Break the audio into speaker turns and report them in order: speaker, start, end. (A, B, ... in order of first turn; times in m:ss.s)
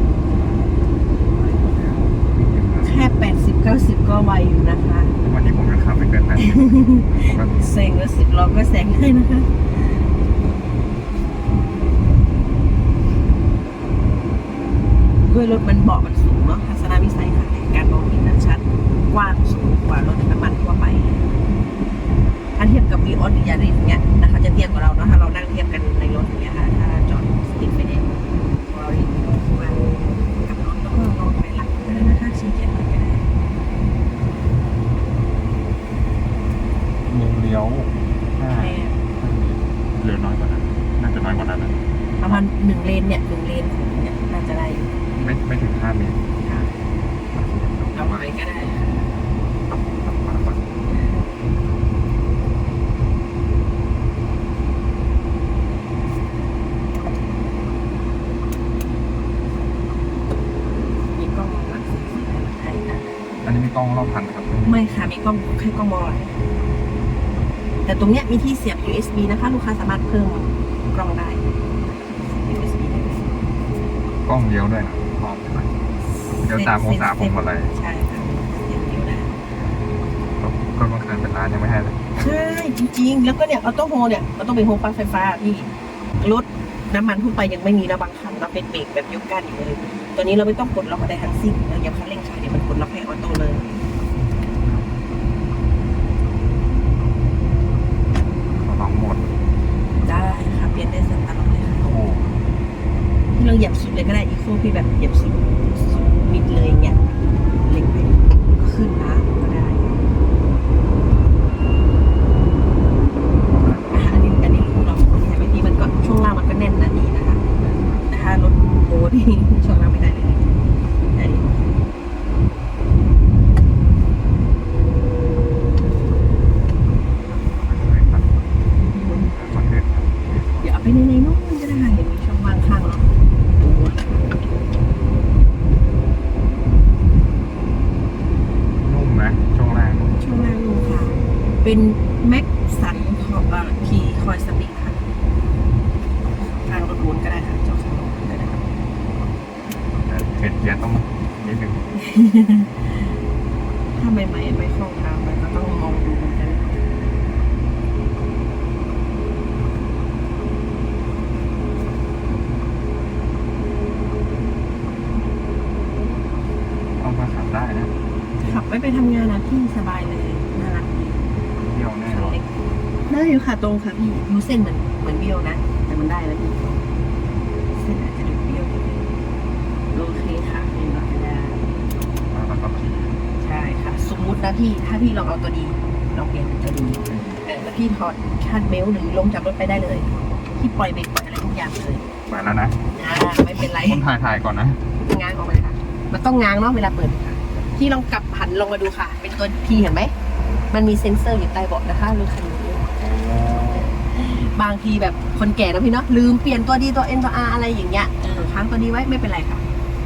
0:01.3-0:03.1 A
0:02.8-0:05.1 B
0:05.2-0:07.7 A
0:06.4-0:09.5 B
0:15.3-0:21.3 B
0:22.5-0:33.3 B
0:37.1-0:42.4 A
0:38.5-0:39.0 B
0:42.2-0:44.9 B
0:45.1-0:46.3 A
0:46.4-0:46.8 B
0:47.3-0:48.3 A
0:47.9-0:49.1 B
0:50.0-0:50.6 A
0:50.8-0:51.3 B
1:01.1-1:03.1 B
1:03.4-1:04.8 A
1:04.6-1:06.4 B
1:07.8-1:11.4 B
1:12.2-1:13.6 B
1:14.2-1:15.7 A
1:16.2-1:19.4 B
1:16.4-1:17.7 A
1:20.4-1:22.0 A
1:22.2-1:33.7 B
1:38.6-1:39.3 A
1:40.0-1:42.0 B
1:41.8-1:42.3 A
1:43.3-1:47.0 B
1:47.6-1:50.0 B
1:53.5-1:54.1 A
1:53.9-1:57.4 B
1:57.5-1:58.1 A
1:58.1-2:00.5 B
2:01.1-2:01.7 B
2:07.3-2:08.4 A
2:08.8-2:09.4 B
2:09.3-2:10.7 A
2:10.6-2:14.3 B
2:18.8-2:20.2 A
2:20.2-2:25.0 B
2:26.4-2:28.7 B
2:30.0-2:31.8 A
2:32.0-2:32.9 B
2:33.9-2:37.1 B
2:47.0-2:48.6 A
2:48.4-2:51.3 B
2:51.6-2:52.4 A
2:52.0-2:56.9 B
2:57.7-2:59.0 B
2:59.9-3:01.7 B
3:02.3-3:03.2 A
3:03.4-3:12.0 B
3:07.1-3:07.4 A
3:12.3-3:12.8 A
3:12.9-3:14.0 B
3:13.6-3:14.8 A
3:15.0-3:20.1 B
3:20.7-3:22.9 B
3:23.0-3:23.9 A
3:23.8-3:29.6 B